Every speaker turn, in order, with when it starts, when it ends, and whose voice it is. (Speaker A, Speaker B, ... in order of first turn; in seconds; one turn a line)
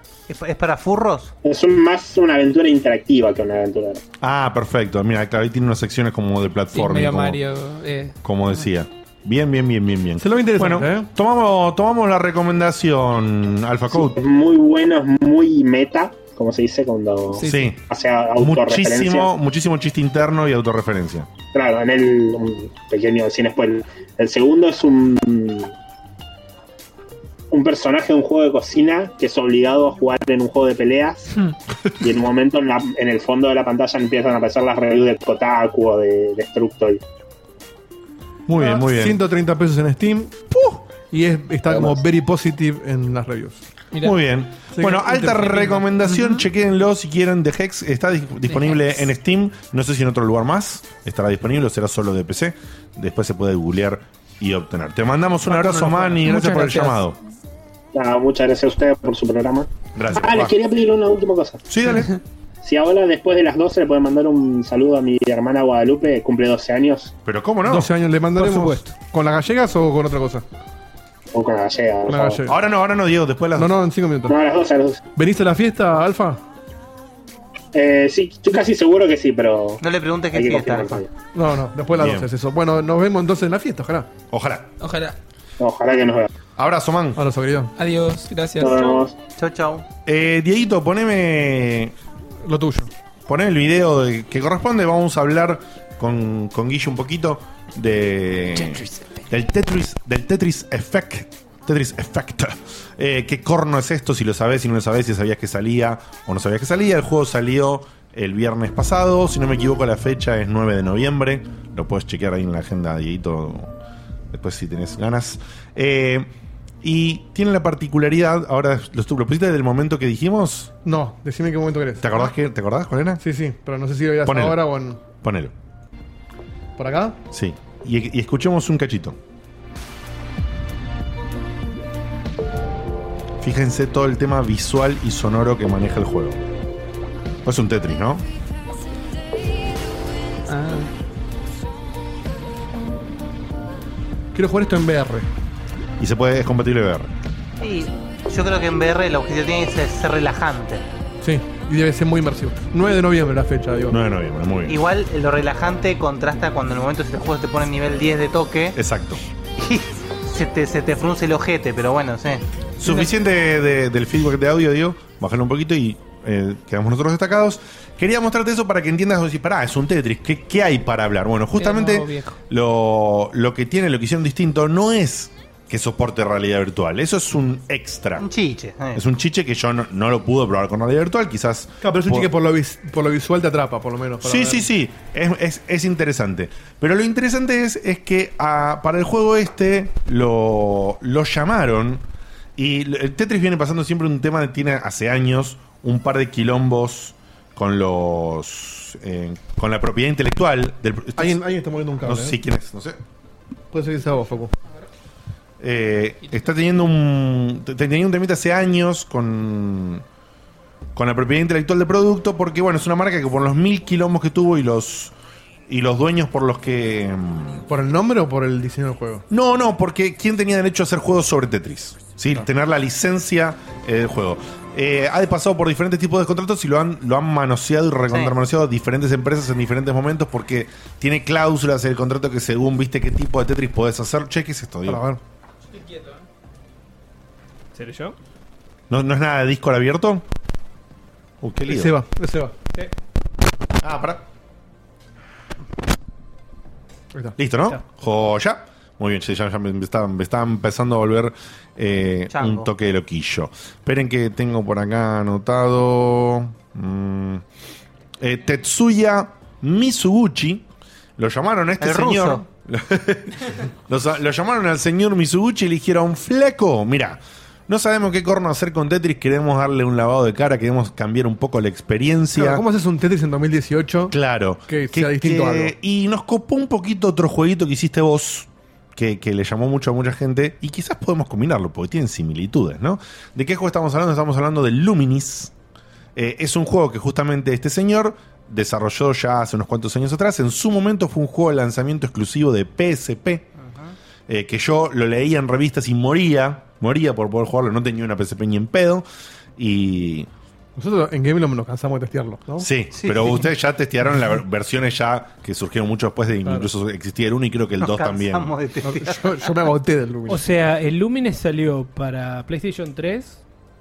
Speaker A: 0.3-1.3
Speaker B: 1.4-4.0
Speaker C: 4.2-7.4
Speaker D: 6.7-8.2
Speaker C: 8.2-14.2
Speaker E: 10.2-11.1
Speaker B: 13.9-19.3
Speaker D: 17.3-17.7
Speaker C: 17.4-17.8
Speaker C: 18.4-21.3
Speaker B: 21.5-25.7
Speaker B: 27.5-31.3
Speaker B: 32.0-37.0
Speaker C: 38.5-39.2
Speaker E: 38.5-43.6
Speaker C: 44.0-57.2
Speaker E: 44.7-45.8
Speaker D: 45.5-46.4
Speaker D: 48.5-49.0
Speaker D: 55.5-57.0
Speaker B: 57.9-61.6
Speaker C: 59.9-60.5
Speaker C: 61.7-62.1
Speaker B: 62.6-67.1
Speaker C: 67.2-68.8
Speaker E: 67.7-70.4
Speaker B: 71.3-72.4
Speaker E: 72.1-72.5
Speaker C: 72.5-73.7
Speaker E: 73.5-74.3
Speaker B: 74.3-75.0
Speaker E: 75.2-76.4
Speaker B: 77.7-79.8
Speaker A: 79.8-81.0
Speaker B: 80.3-81.1
Speaker E: 81.3-84.1
Speaker C: 81.9-82.3
Speaker C: 84.3-84.7
Speaker D: 84.8-85.2
Speaker B: 85.6-86.3
Speaker C: 86.6-87.2
Speaker E: 87.2-87.7
Speaker D: 87.8-89.0
Speaker B: 88.6-89.1
Speaker A: 89.3-89.8
Speaker C: 90.0-91.9
Speaker E: 92.4-92.9
Speaker C: 93.3-113.7
Speaker C: 114.3-116.3
Speaker C: 116.8-120.7
Speaker E: 120.8-122.2
Speaker C: 122.0-123.2
Speaker E: 123.2-125.0
Speaker C: 124.2-124.6
Speaker C: 125.2-125.5
Speaker E: 126.8-127.2
Speaker C: 127.3-129.2
Speaker C: 133.4-136.4
Speaker C: 137.4-138.2
Speaker D: 140.5-140.9
Speaker E: 144.3-145.3
Speaker C: 146.0-147.1
Speaker A: 147.6-150.8
Speaker E: 151.2-153.9
Speaker C: 153.9-154.8
Speaker A: 154.7-158.8
Speaker C: 158.8-159.2
Speaker A: 159.6-162.4
Speaker C: 162.8-178.2
Speaker D: 171.6-172.4
Speaker A: 178.2-179.0
Speaker C: 178.9-182.3
Speaker E: 181.8-184.6
Speaker C: 184.2-192.0
Speaker C: 192.6-201.4
Speaker E: 201.2-202.3
Speaker C: 202.0-203.0
Speaker E: 203.7-204.5
Speaker C: 205.6-210.0
Speaker C: 210.9-215.1
Speaker C: 215.7-217.6
Speaker E: 217.7-219.2
Speaker C: 219.3-235.0
Speaker A: 228.1-228.3
Speaker E: 234.8-235.2
Speaker D: 235.9-236.2
Speaker F: 237.7-238.2
Speaker C: 238.9-240.2
Speaker C: 241.4-241.9
Speaker E: 241.7-242.5
Speaker C: 243.8-244.2
Speaker C: 247.4-257.4
Speaker A: 252.3-252.7
Speaker C: 258.2-260.6
Speaker C: 261.2-272.6
Speaker A: 261.8-262.4
Speaker E: 272.3-274.1
Speaker C: 274.1-285.5
Speaker E: 274.7-275.7
Speaker C: 286.1-293.4
Speaker A: 293.6-293.9
Speaker C: 294.3-299.1
Speaker C: 299.6-300.3
Speaker E: 300.8-302.7
Speaker C: 302.6-308.5
Speaker A: 302.9-303.4
Speaker A: 307.8-309.4
Speaker E: 308.8-310.4
Speaker F: 310.3-313.4